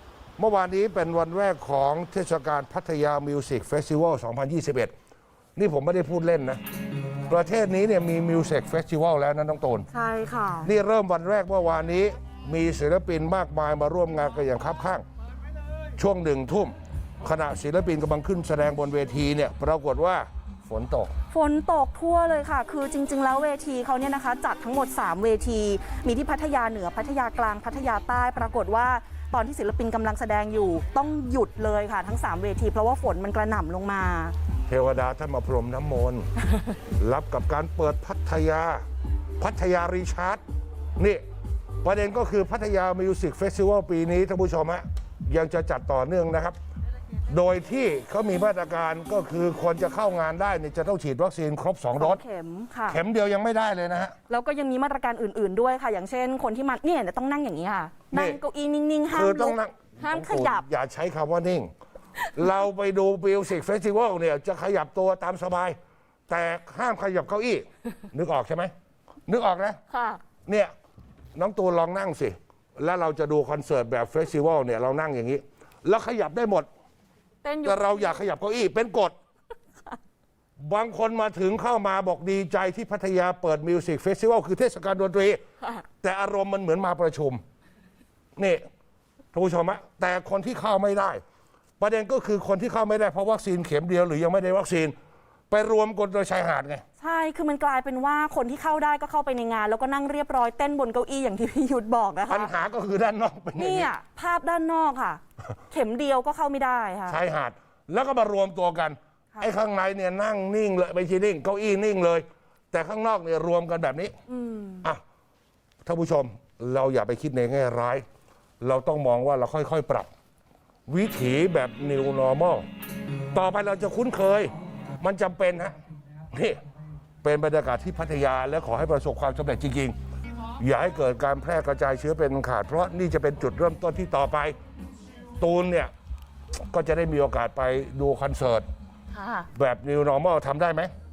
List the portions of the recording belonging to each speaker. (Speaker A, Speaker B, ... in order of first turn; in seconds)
Speaker A: 0.4-4.9, 5.5-6.6, 7.3-9.9, 10.6-15.0, 16.0-21.1, 34.7-36.3, 37.0-38.8, 39.4-40.4, 41.8-46.6, 47.3-52.2, 52.9-54.1, 58.1-58.4, 59.1-61.7, 62.3-65.8, 66.3-68.7, 69.3-69.8, 70.5-70.7, 71.3-76.7, 77.6-79.1, 80.6-85.4, 86.0-87.4, 88.4-88.6, 89.3-91.2, 91.8-94.9, 95.5-96.8, 102.3-103.9, 107.1-114.2, 115.8-118.0, 118.6-120.1, 120.9-122.7, 123.3-125.8, 126.3-126.6, 127.2-129.9, 130.6-134.6, 135.4-135.9, 136.7-138.6, 139.5-140.9
Speaker B: 9.9-10.7, 21.3-34.4, 52.0-53.0, 54.3-60.6, 69.9-70.2, 77.4-78.2, 97.0-102.5, 103.5-107.2, 114.3-114.8, 139.1-139.5